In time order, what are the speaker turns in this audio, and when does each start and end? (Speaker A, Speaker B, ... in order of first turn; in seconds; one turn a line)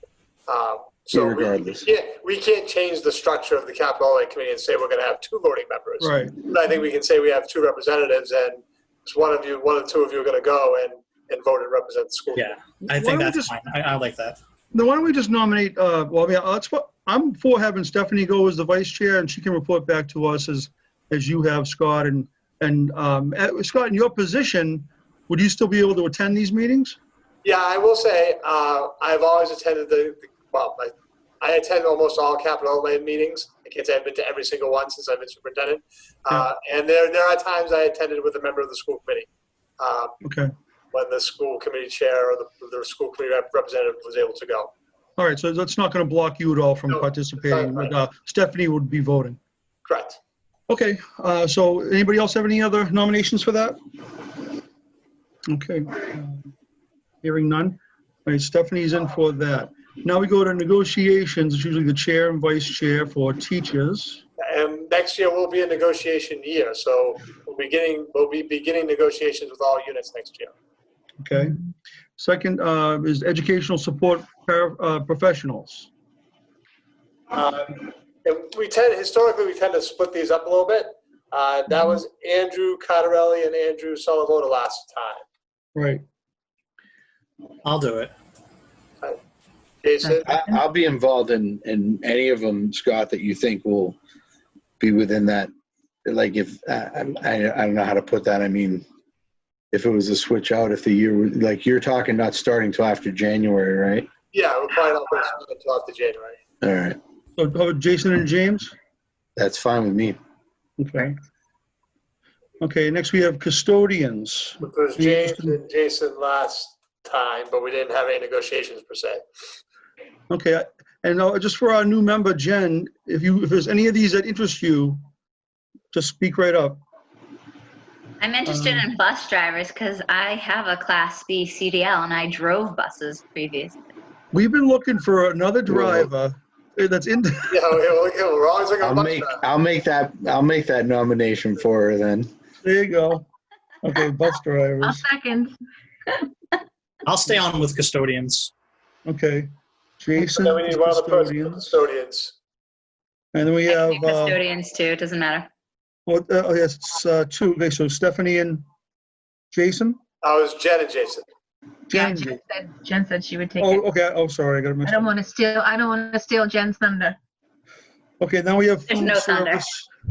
Speaker A: 0.5-12.5
Speaker B: 1.1-1.9
Speaker C: 6.0-6.3
Speaker D: 12.3-14.4
Speaker C: 12.8-13.5
Speaker C: 14.7-27.0
Speaker A: 27.4-39.3
Speaker A: 39.8-40.1
Speaker C: 40.2-40.5
Speaker A: 40.9-44.7
Speaker C: 45.2-49.4
Speaker A: 46.9-48.0
Speaker A: 49.9-50.2
Speaker C: 50.7-53.8
Speaker C: 55.5-56.5
Speaker C: 57.2-64.2
Speaker A: 64.4-70.5
Speaker C: 71.2-71.6
Speaker C: 72.2-75.9
Speaker A: 77.3-85.2
Speaker C: 85.7-86.0
Speaker D: 87.6-88.1
Speaker A: 89.8-90.2
Speaker E: 90.1-90.5
Speaker B: 90.2-94.0
Speaker B: 94.8-95.5
Speaker B: 96.0-98.8
Speaker B: 99.7-104.1
Speaker A: 104.3-106.4
Speaker B: 106.6-107.0
Speaker C: 107.4-108.7
Speaker B: 109.3-110.2
Speaker C: 110.8-111.2
Speaker C: 112.6-115.6
Speaker A: 114.6-119.2
Speaker C: 120.3-125.0
Speaker C: 125.9-126.8
Speaker F: 128.2-133.8
Speaker C: 128.4-128.9
Speaker C: 134.3-137.5
Speaker B: 135.7-136.1
Speaker A: 137.5-139.4
Speaker B: 138.8-142.3
Speaker C: 142.6-143.3
Speaker C: 143.8-145.0
Speaker E: 144.8-145.5
Speaker D: 147.0-148.5
Speaker C: 149.1-151.7
Speaker A: 150.2-152.3
Speaker C: 153.3-154.4
Speaker F: 153.7-155.5
Speaker C: 156.1-158.6
Speaker C: 159.5-160.0
Speaker A: 160.2-161.2
Speaker C: 161.9-162.4
Speaker E: 161.9-163.9
Speaker C: 163.6-165.1
Speaker E: 164.8-167.2
Speaker C: 168.2-169.9
Speaker F: 168.9-169.7